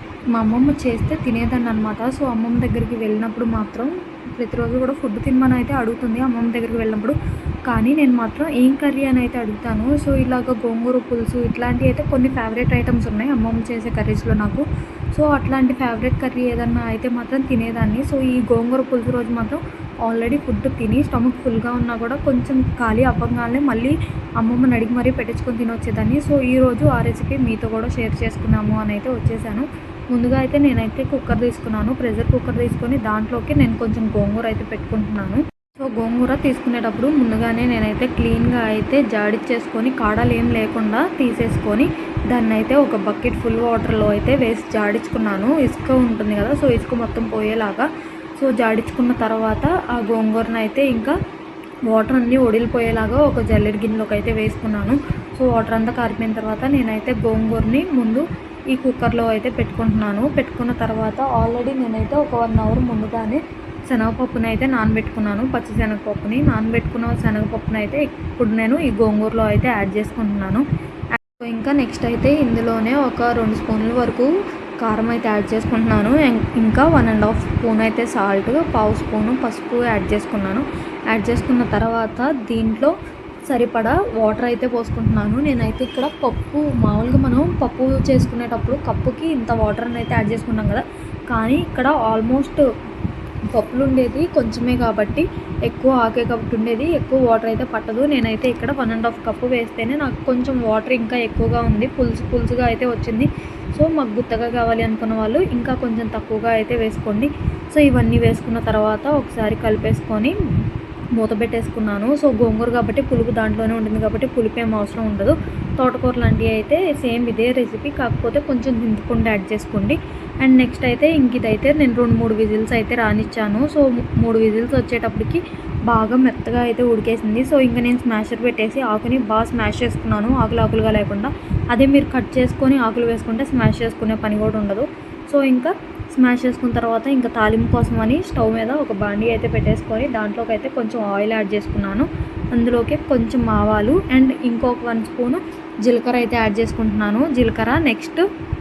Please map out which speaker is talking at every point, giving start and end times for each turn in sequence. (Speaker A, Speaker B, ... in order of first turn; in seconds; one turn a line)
Speaker A: 0.3-51.1
Speaker A: 51.9-74.3
Speaker A: 74.8-82.9
Speaker A: 83.5-92.6
Speaker A: 93.5-110.3
Speaker A: 111.1-148.2